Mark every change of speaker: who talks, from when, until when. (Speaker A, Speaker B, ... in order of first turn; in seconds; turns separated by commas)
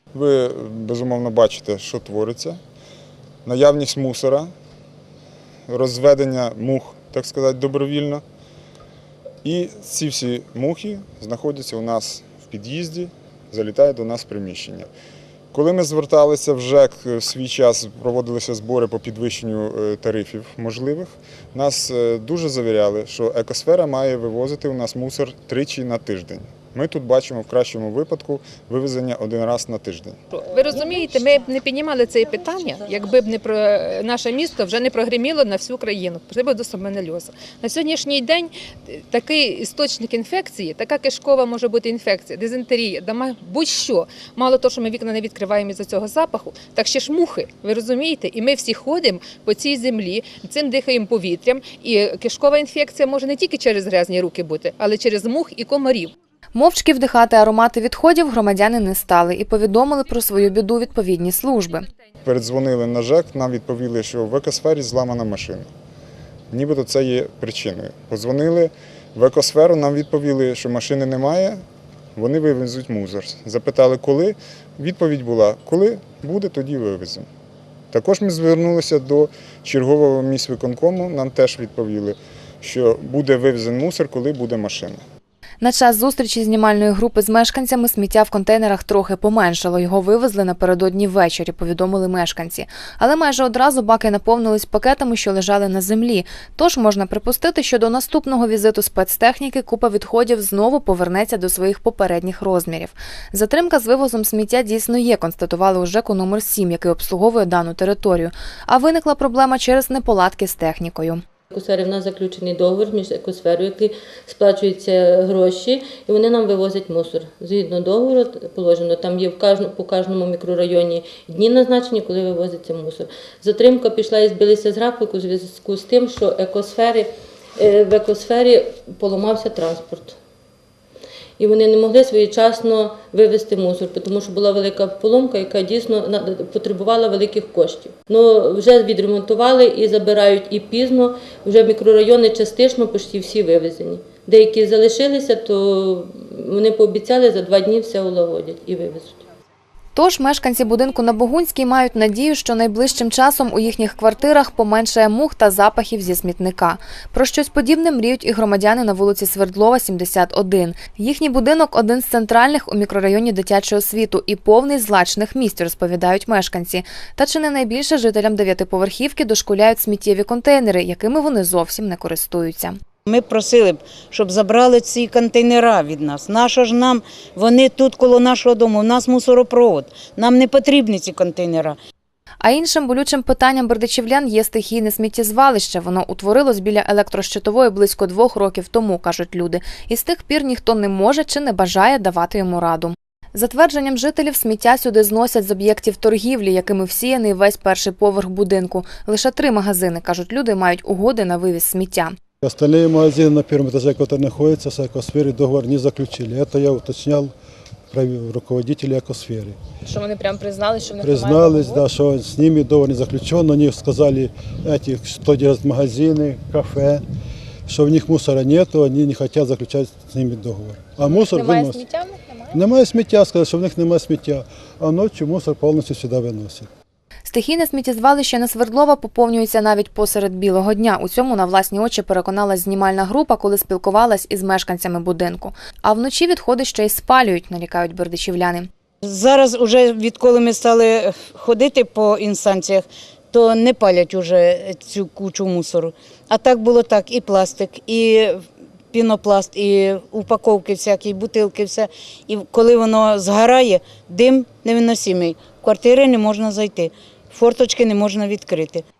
Speaker A: 0.1-2.6, Speaker A: 3.4-4.5, Speaker A: 5.7-8.2, Speaker A: 9.4-14.9, Speaker A: 15.5-30.2, Speaker B: 30.3-56.1, Speaker C: 56.5-61.9, Speaker A: 62.2-65.7, Speaker A: 66.5-71.6, Speaker A: 72.2-77.2, Speaker A: 77.9-85.0, Speaker C: 85.6-111.2, Speaker D: 111.5-130.2, Speaker D: 131.4-149.2, Speaker C: 149.9-172.8, Speaker E: 173.1-181.8, Speaker C: 182.4-202.1, Speaker F: 202.4-207.3, Speaker F: 207.9-209.6, Speaker C: 209.8-211.8, Speaker F: 211.0-217.0, Speaker F: 217.7-221.8, Speaker C: 221.1-222.4, Speaker F: 222.5-226.7, Speaker C: 227.2-238.7, Speaker E: 239.0-258.8